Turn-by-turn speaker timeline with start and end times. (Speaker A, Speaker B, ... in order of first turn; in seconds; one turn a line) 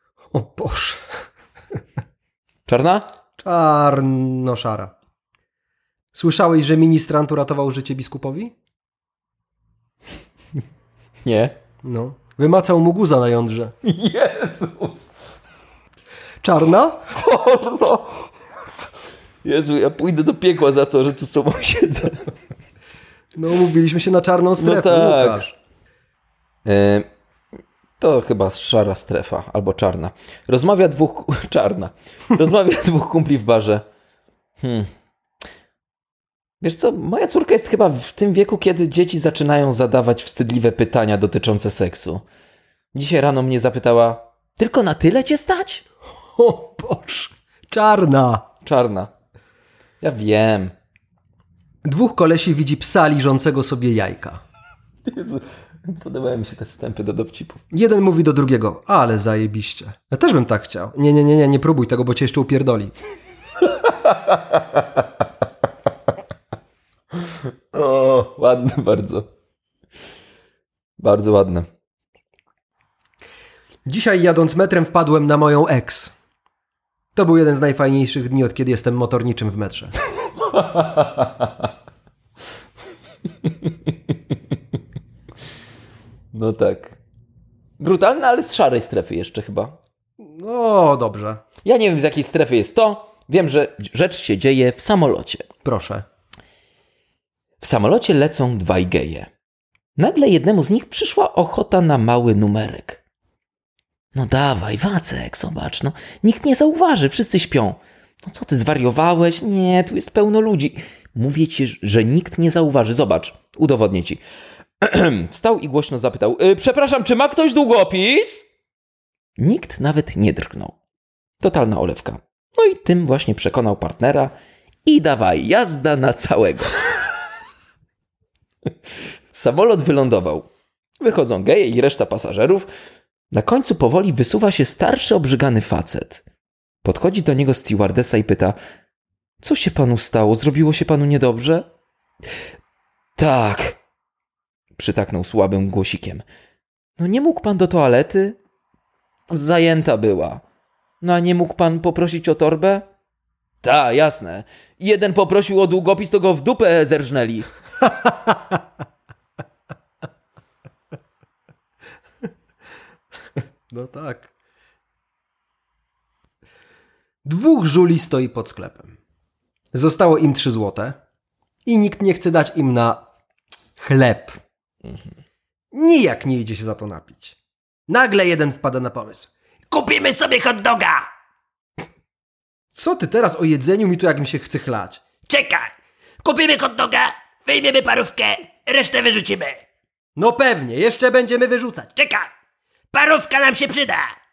Speaker A: 0.3-1.0
Speaker B: 2.6-3.0
Speaker A: 3.4-4.9
Speaker A: 6.1-8.5
Speaker B: 11.2-11.5
Speaker A: 11.8-13.7
Speaker B: 13.8-15.1
Speaker A: 16.4-17.1
Speaker B: 17.1-18.3
Speaker B: 19.4-22.3
Speaker A: 23.4-25.6
Speaker B: 24.6-25.4
Speaker B: 26.6-27.1
Speaker B: 28.0-33.8
Speaker B: 34.6-34.9
Speaker B: 36.6-42.2
Speaker B: 42.9-45.8
Speaker A: 46.4-48.4
Speaker B: 48.6-49.1
Speaker B: 50.0-50.7
Speaker A: 51.8-54.4
Speaker B: 55.0-57.6
Speaker A: 57.7-62.9
Speaker B: 63.6-65.1
Speaker B: 67.7-69.2
Speaker B: 71.0-71.7
Speaker A: 73.8-76.1
Speaker A: 77.1-79.9
Speaker B: 80.4-81.6
Speaker B: 83.4-83.8
Speaker B: 86.3-87.0
Speaker B: 87.8-89.8
Speaker A: 90.2-91.4
Speaker B: 91.6-95.5
Speaker A: 95.6-96.0
Speaker B: 97.6-99.3
Speaker B: 100.0-103.0
Speaker B: 104.1-114.2
Speaker B: 114.8-118.5
Speaker B: 119.4-120.8
Speaker B: 121.4-124.3
Speaker B: 124.8-126.8
Speaker B: 129.3-132.7
Speaker B: 133.3-136.2
Speaker B: 136.8-138.6
Speaker B: 139.4-141.7
Speaker B: 143.2-143.8
Speaker B: 144.8-146.2
Speaker B: 147.0-148.4
Speaker B: 149.3-150.4
Speaker B: 151.0-152.8
Speaker B: 153.6-157.5
Speaker A: 157.9-158.3
Speaker A: 163.7-164.3
Speaker A: 167.2-168.9
Speaker A: 169.7-171.0
Speaker A: 171.7-173.0
Speaker A: 173.8-174.3
Speaker A: 175.7-177.4
Speaker A: 177.9-179.3
Speaker C: 179.7-181.1
Speaker A: 182.7-185.0
Speaker C: 185.3-189.6
Speaker A: 190.2-192.2
Speaker C: 192.9-194.1